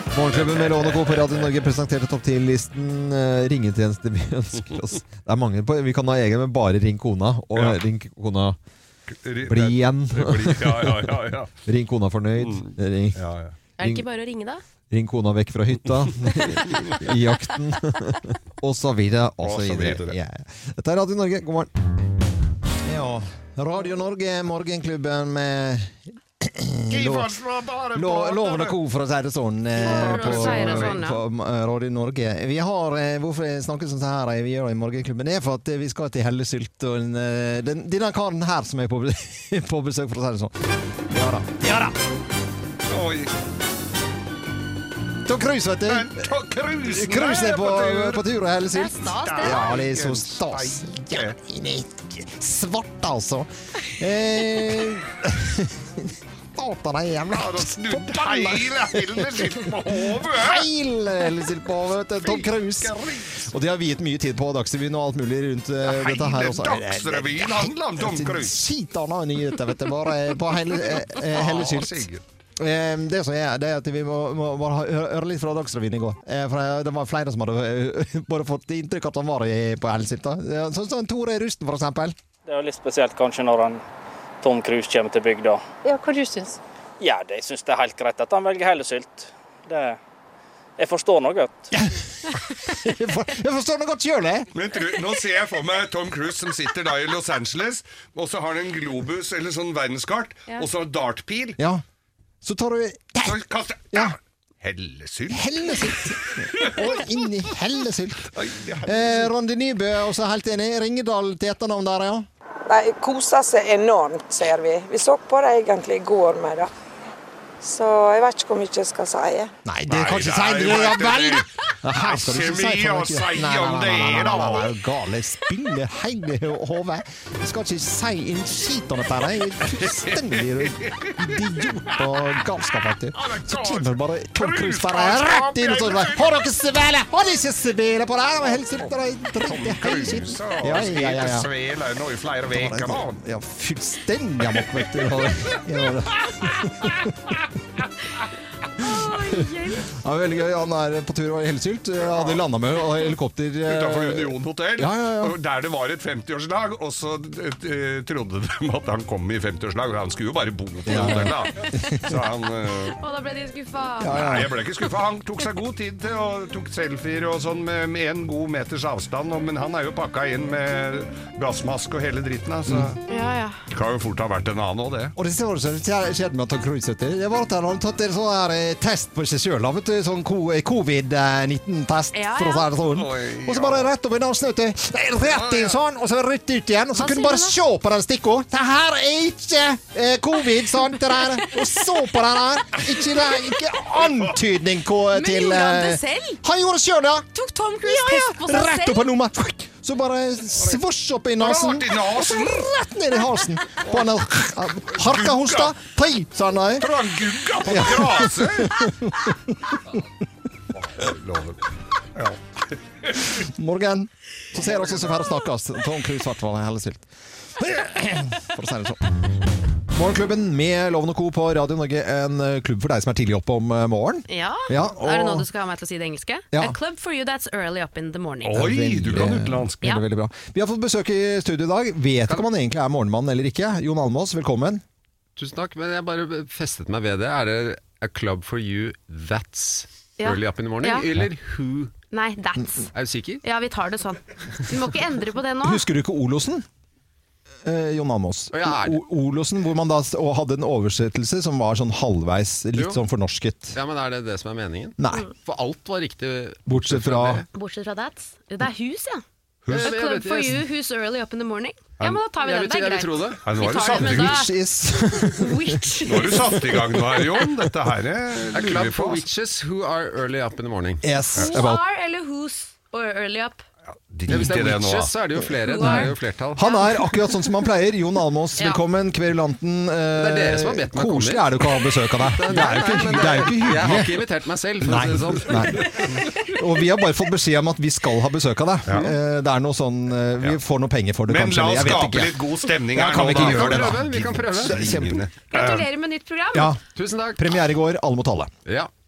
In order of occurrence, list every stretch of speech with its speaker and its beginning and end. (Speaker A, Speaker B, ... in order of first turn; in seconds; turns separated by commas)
Speaker A: 0.1-8.6, Speaker B: 0.3-1.5, Speaker B: 7.5-7.8, Speaker B: 9.2-11.5, Speaker A: 9.5-11.1, Speaker A: 11.7-13.2, Speaker B: 12.4-13.6, Speaker C: 13.8-14.6, Speaker A: 13.8-14.1, Speaker A: 14.9-21.7, Speaker B: 16.6-17.0, Speaker B: 19.4-20.1, Speaker A: 22.8-27.3, Speaker B: 26.9-28.8, Speaker A: 27.9-40.5, Speaker C: 29.8-31.2, Speaker B: 29.8-31.0, Speaker A: 41.1-41.9, Speaker B: 42.9-43.3, Speaker A: 45.2-46.2, Speaker B: 45.9-48.2, Speaker A: 46.8-72.1, Speaker C: 48.7-49.7, Speaker B: 49.1-51.4, Speaker B: 57.3-60.7, Speaker B: 62.2-63.5, Speaker B: 65.8-68.6, Speaker B: 71.1-72.2, Speaker A: 72.6-82.2, Speaker D: 82.5-83.8, Speaker D: 84.4-85.6, Speaker D: 87.0-90.0, Speaker D: 90.8-91.7, Speaker A: 91.7-94.5, Speaker B: 94.5-101.6, Speaker A: 101.6-101.8, Speaker A: 102.4-103.4, Speaker B: 103.2-107.0, Speaker A: 105.3-112.3, Speaker B: 108.3-109.3, Speaker E: 112.7-116.7, Speaker E: 117.6-119.5, Speaker A: 119.6-141.5, Speaker B: 119.9-124.7, Speaker B: 129.7-132.1, Speaker B: 133.1-136.4, Speaker B: 138.5-143.2, Speaker A: 142.5-147.3, Speaker B: 144.6-145.3, Speaker B: 146.3-147.1, Speaker C: 148.8-149.9, Speaker A: 148.8-155.4, Speaker B: 152.1-152.4, Speaker B: 153.6-163.0, Speaker A: 160.9-162.2, Speaker C: 163.0-164.3, Speaker A: 164.0-164.5, Speaker B: 164.1-173.0, Speaker A: 172.7-172.9, Speaker C: 173.1-173.6, Speaker B: 173.7-175.1, Speaker A: 175.2-197.3, Speaker C: 182.1-182.7, Speaker B: 182.9-183.9, Speaker B: 185.2-185.8, Speaker C: 187.0-187.6, Speaker C: 191.2-191.5, Speaker C: 195.1-196.4, Speaker C: 197.3-199.1, Speaker A: 197.8-207.0, Speaker B: 201.4-202.7, Speaker B: 203.8-204.1, Speaker B: 204.9-205.8, Speaker B: 206.8-208.9, Speaker A: 207.6-209.8, Speaker B: 210.8-211.6, Speaker B: 213.0-213.3, Speaker A: 213.3-219.1, Speaker B: 214.7-215.0, Speaker A: 219.9-225.5, Speaker C: 224.3-228.6, Speaker A: 226.5-226.8, Speaker B: 228.4-229.8, Speaker A: 228.5-234.8, Speaker F: 235.4-241.9, Speaker C: 240.2-241.1, Speaker C: 242.1-242.9, Speaker F: 242.9-243.4, Speaker C: 243.4-245.8, Speaker A: 245.6-246.7, Speaker A: 247.7-253.8, Speaker F: 248.5-249.0, Speaker F: 253.7-257.5, Speaker A: 255.0-255.2, Speaker A: 256.7-257.4, Speaker C: 257.5-264.5, Speaker B: 259.6-259.9, Speaker F: 259.7-260.6, Speaker F: 262.4-263.8, Speaker B: 263.4-264.4, Speaker A: 263.9-267.5, Speaker C: 265.2-266.5, Speaker B: 266.0-269.3, Speaker F: 268.5-271.0, Speaker A: 271.0-271.8, Speaker C: 271.4-273.6, Speaker B: 274.1-275.1, Speaker F: 274.3-276.7, Speaker C: 275.7-277.1, Speaker A: 275.8-284.2, Speaker F: 280.1-286.3, Speaker A: 284.8-295.3, Speaker B: 291.3-295.8, Speaker F: 293.0-295.0, Speaker C: 295.5-296.7, Speaker A: 296.5-296.8, Speaker F: 296.9-297.5, Speaker A: 297.4-298.5